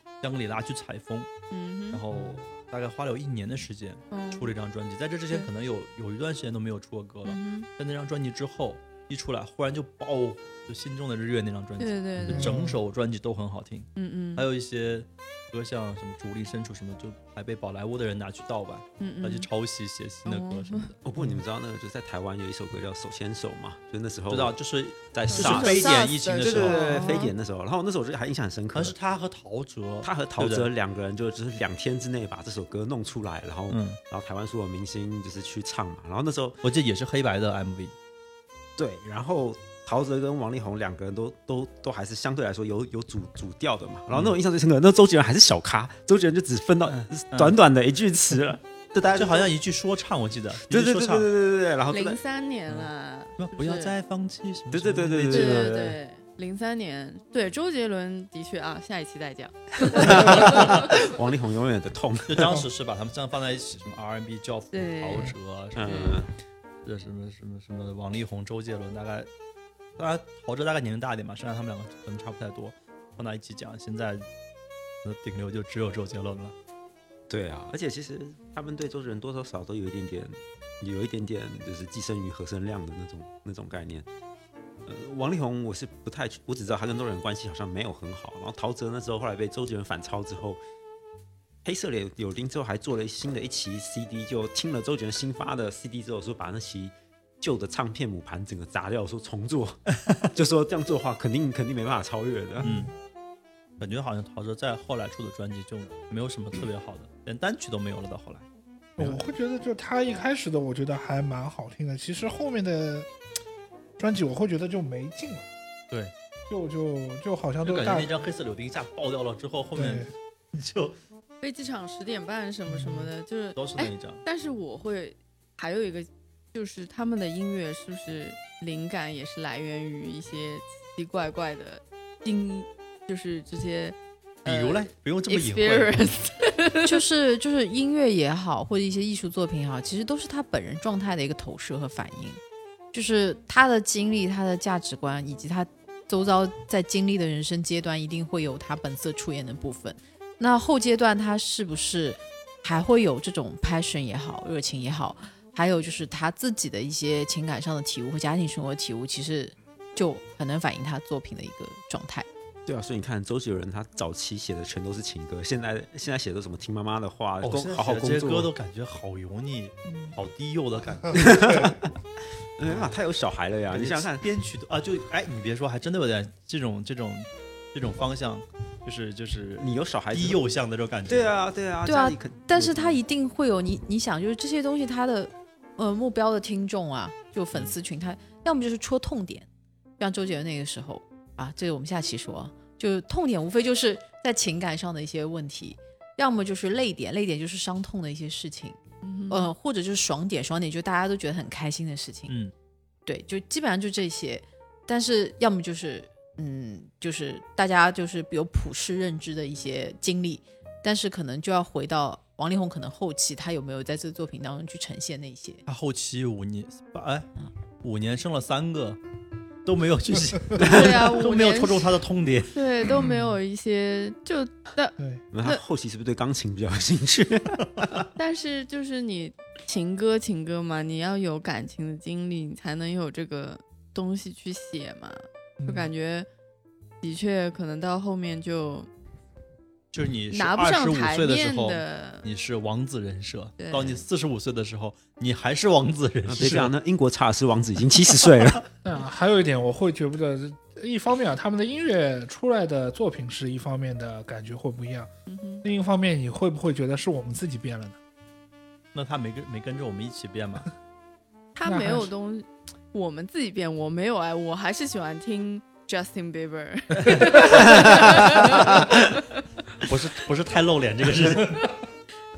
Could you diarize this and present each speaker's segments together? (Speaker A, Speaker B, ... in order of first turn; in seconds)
Speaker A: 0.2-1.3, 1.9-21.0, 24.3-27.0, 28.7-30.7, 33.7-34.0, 36.6-37.9, 44.1-44.4, 46.9-47.6, 49.1-51.3, 52.7-55.7, 60.0-60.9, 62.3-66.1, 66.8-69.3, 70.0-74.3, 75.0-76.5, 100.0-100.3, 102.6-102.9, 103.8-108.5, 117.6-121.0, 123.6-124.2, 134.4-136.2, 167.4-171.4, 172.7-172.9, 173.7-181.4, 202.3-202.5, 215.7-217.3, 217.8-219.0, 219.7-222.6, 239.9-246.7, 258.9-260.7, 267.0-269.1, 269.8-271.7
Speaker B: 1.5-2.0, 4.1-4.5, 7.3-7.7, 11.8-12.6, 14.0-14.5, 19.0-19.5, 20.3-20.9, 25.3-27.3, 51.9-53.9, 55.3-61.0, 64.7-66.2, 121.4-137.0, 199.0-199.5, 220.6-222.0, 222.5-225.6, 228.2-236.3, 237.0-238.9, 240.3-242.3, 243.6-243.9, 255.3-255.7, 261.6-269.3
Speaker C: 12.3-12.8, 102.6-102.9, 109.0-113.1, 114.0-115.5, 116.5-118.1, 119.8-120.1, 122.7-123.1, 223.0-223.4, 235.6-235.9, 248.8-255.1, 255.6-258.0, 261.7-262.1
Speaker D: 21.0-24.6, 25.1-28.9, 30.0-36.6, 38.8-49.5, 50.7-52.2, 54.7-56.0, 59.9-62.6, 65.8-66.3, 77.3-84.1, 84.9-90.6, 91.6-99.8, 100.3-102.8, 162.7-168.5, 171.1-171.9, 172.6-174.2, 179.6-180.4, 181.1-183.0, 225.3-228.1, 246.3-248.7, 267.5-268.1
Speaker E: 136.8-142.4, 142.9-162.3, 181.8-189.5, 190.0-198.8, 199.3-202.3, 203.1-215.6